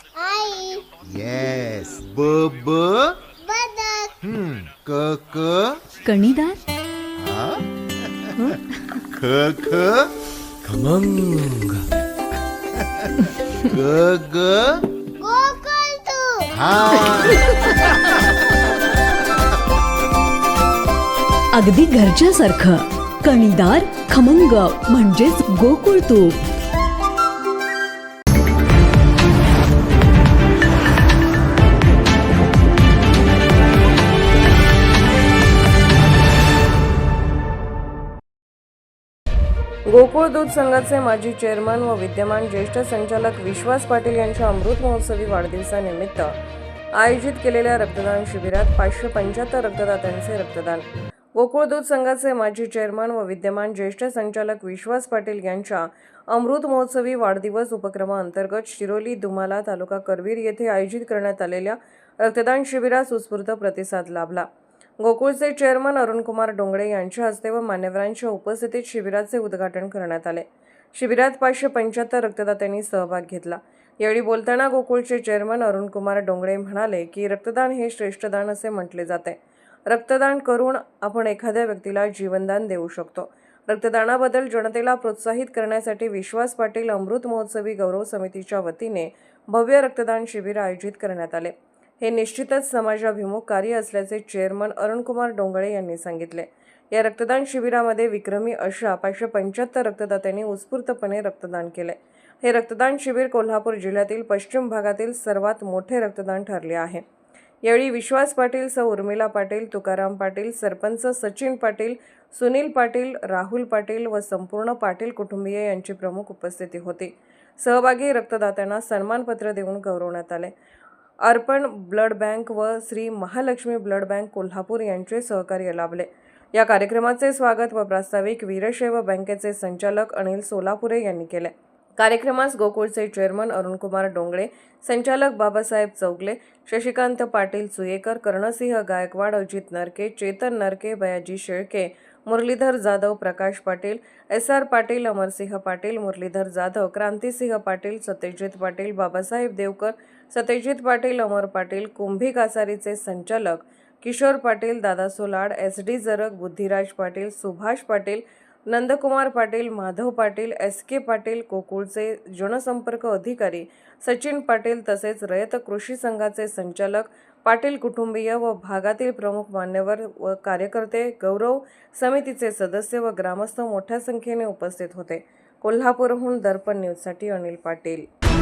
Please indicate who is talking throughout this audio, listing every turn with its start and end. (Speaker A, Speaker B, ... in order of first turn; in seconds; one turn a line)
Speaker A: 0.2-0.8
Speaker B: 1.1-3.2
Speaker A: 3.4-4.1
Speaker B: 4.2-5.8
Speaker C: 6.0-6.6
Speaker B: 7.2-8.6
Speaker B: 9.1-10.1
Speaker B: 10.7-11.8
Speaker B: 12.8-14.8
Speaker A: 15.2-16.5
Speaker B: 16.6-18.6
Speaker C: 21.5-26.4
Speaker D: 39.9-46.3
Speaker D: 47.0-64.5
Speaker D: 65.0-107.0
Speaker D: 107.7-120.5
Speaker D: 121.2-178.1